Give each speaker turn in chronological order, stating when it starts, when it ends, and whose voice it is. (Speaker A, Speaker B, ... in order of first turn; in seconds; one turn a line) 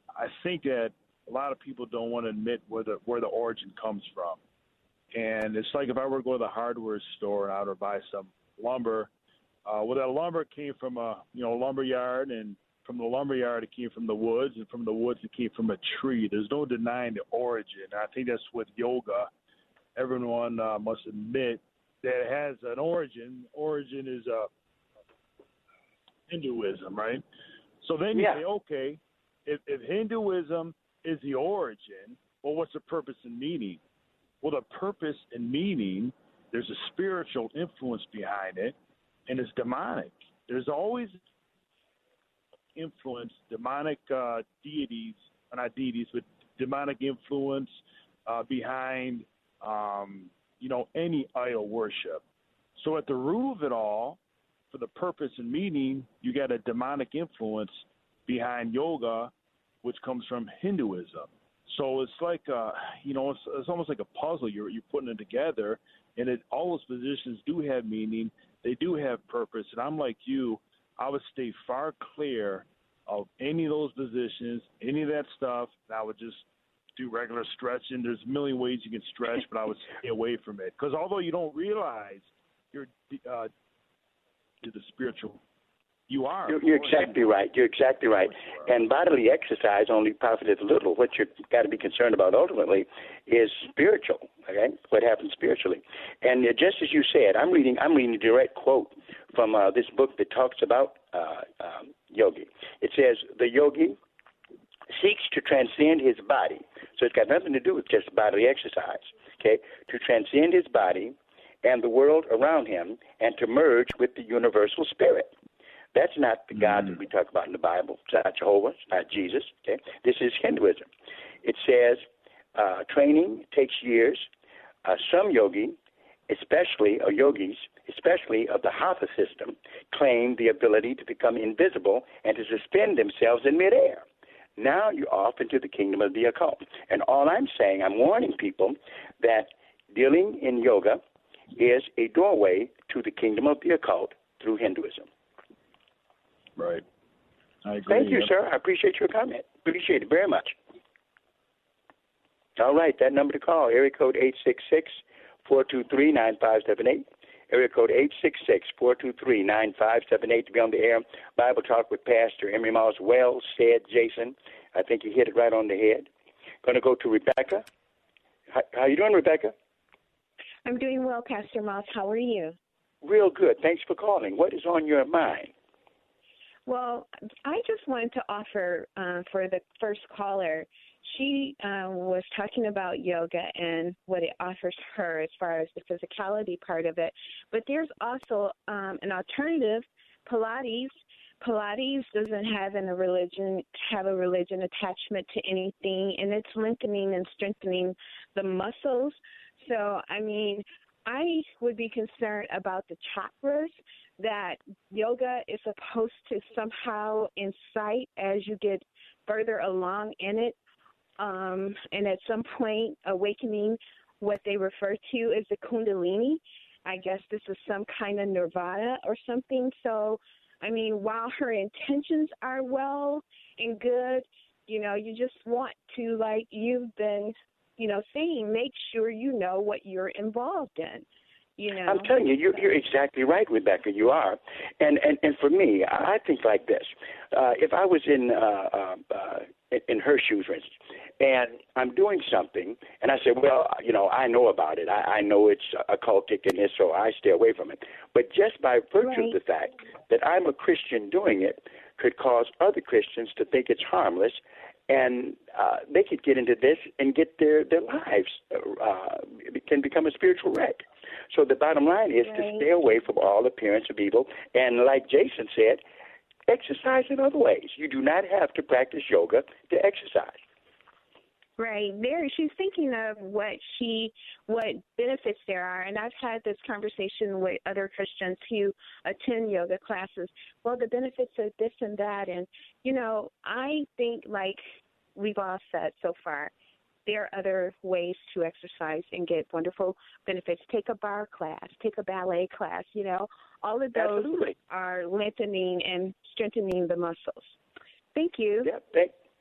Speaker A: 0.2-4.4
Speaker A: 5.1-9.1
Speaker A: 9.7-19.3
Speaker A: 20.0-24.5
Speaker A: 26.3-27.2
Speaker A: 27.8-33.8
Speaker B: 28.1-28.4
Speaker A: 34.4-38.8
Speaker A: 39.3-41.2
Speaker A: 42.8-47.8
Speaker A: 48.3-52.2
Speaker A: 52.8-54.2
Speaker A: 54.7-59.3
Speaker A: 59.8-76.4
Speaker A: 77.0-83.5
Speaker A: 84.6-85.4
Speaker A: 86.1-87.4
Speaker B: 86.5-104.0
Speaker A: 88.3-88.7
Speaker B: 104.9-115.3
Speaker B: 115.9-120.9
Speaker B: 121.4-122.0
Speaker B: 122.5-124.3
Speaker B: 124.8-125.8
Speaker B: 126.3-134.0
Speaker B: 134.6-141.0
Speaker B: 141.6-145.1
Speaker A: 146.6-146.8
Speaker A: 147.7-148.3
Speaker B: 147.9-150.6
Speaker B: 152.6-166.1
Speaker B: 166.6-167.7
Speaker B: 168.5-169.5
Speaker C: 170.7-172.6
Speaker B: 173.0-175.5
Speaker C: 176.7-210.6
Speaker C: 211.2-231.1
Speaker C: 231.6-232.1
Speaker B: 231.8-265.8
Speaker C: 249.0-249.3
Speaker C: 262.2-262.7
Speaker B: 266.5-270.4
Speaker C: 271.6-284.6
Speaker C: 285.2-286.5
Speaker C: 287.1-297.5
Speaker B: 293.9-294.5
Speaker C: 298.1-298.7
Speaker B: 298.6-299.1